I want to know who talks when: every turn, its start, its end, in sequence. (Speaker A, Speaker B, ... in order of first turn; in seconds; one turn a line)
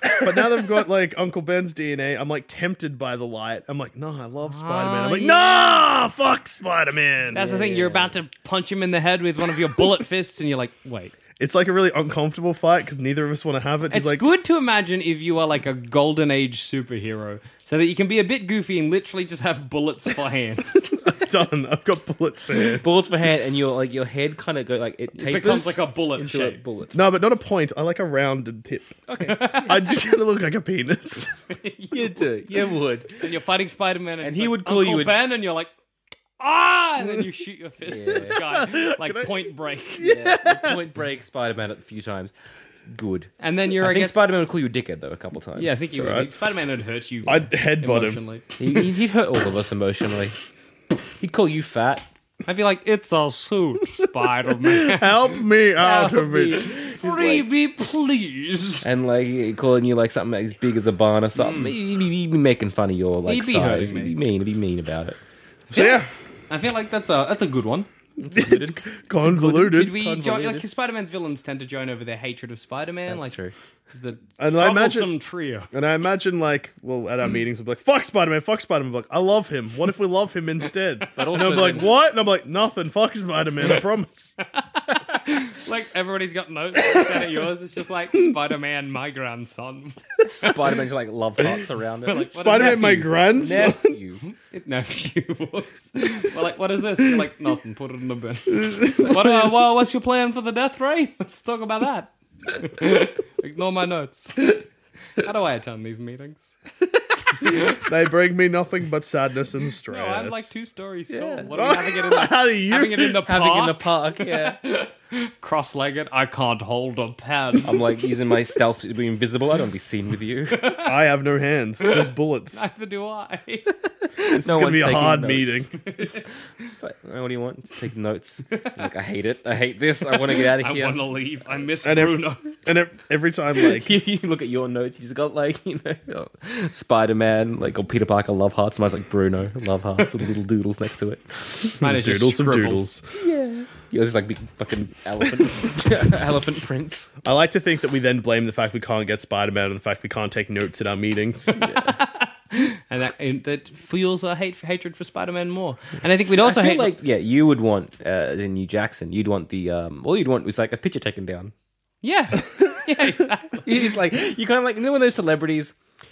Speaker A: 0.2-7.5
Speaker B: 4.5-5.9
Speaker C: 7.3-8.1
Speaker B: 7.3-11.1
Speaker A: 11.4-14.2
Speaker B: 13.9-21.1
Speaker A: 21.1-22.8
Speaker C: 22.7-26.9
Speaker B: 25.1-26.6
Speaker A: 26.9-31.5
Speaker C: 29.1-29.8
Speaker B: 29.3-29.8
Speaker B: 31.5-32.2
Speaker C: 31.9-33.2
Speaker B: 33.2-35.7
Speaker C: 34.2-35.2
Speaker B: 36.4-40.1
Speaker C: 37.8-38.4
Speaker A: 38.3-40.9
Speaker C: 40.0-42.3
Speaker C: 42.9-45.8
Speaker B: 43.4-44.2
Speaker B: 45.6-48.5
Speaker A: 45.9-46.3
Speaker A: 47.2-48.2
Speaker C: 48.6-50.4
Speaker C: 51.2-52.1
Speaker B: 52.5-55.1
Speaker A: 54.6-56.7
Speaker C: 55.8-57.4
Speaker B: 55.8-58.9
Speaker C: 58.8-65.2
Speaker B: 61.3-61.8
Speaker B: 63.2-64.1
Speaker B: 65.7-67.9
Speaker A: 65.7-66.1
Speaker C: 68.2-70.7
Speaker A: 68.3-70.0
Speaker B: 69.6-73.3
Speaker C: 73.1-73.5
Speaker B: 73.9-75.7
Speaker A: 74.4-75.1
Speaker A: 75.7-84.3
Speaker C: 81.1-82.0
Speaker B: 84.7-90.2
Speaker C: 90.2-94.2
Speaker B: 92.0-93.7
Speaker A: 92.3-94.0
Speaker B: 94.2-104.6
Speaker A: 98.7-99.3
Speaker B: 105.2-106.5
Speaker B: 107.4-107.8
Speaker A: 107.8-110.5
Speaker B: 109.9-117.8
Speaker C: 111.1-111.5
Speaker A: 111.5-113.2
Speaker C: 113.2-114.6
Speaker C: 117.6-120.8
Speaker B: 120.6-120.9
Speaker A: 120.8-122.7
Speaker B: 121.8-123.7
Speaker A: 124.3-125.7
Speaker C: 124.4-131.6
Speaker B: 130.1-132.5
Speaker A: 131.8-133.9
Speaker C: 133.7-141.8
Speaker B: 141.8-142.9
Speaker A: 141.8-143.0
Speaker C: 143.1-147.1
Speaker A: 147.2-151.6
Speaker C: 151.6-152.0
Speaker B: 151.8-156.9
Speaker C: 156.2-161.5
Speaker B: 162.0-163.6
Speaker C: 163.6-165.7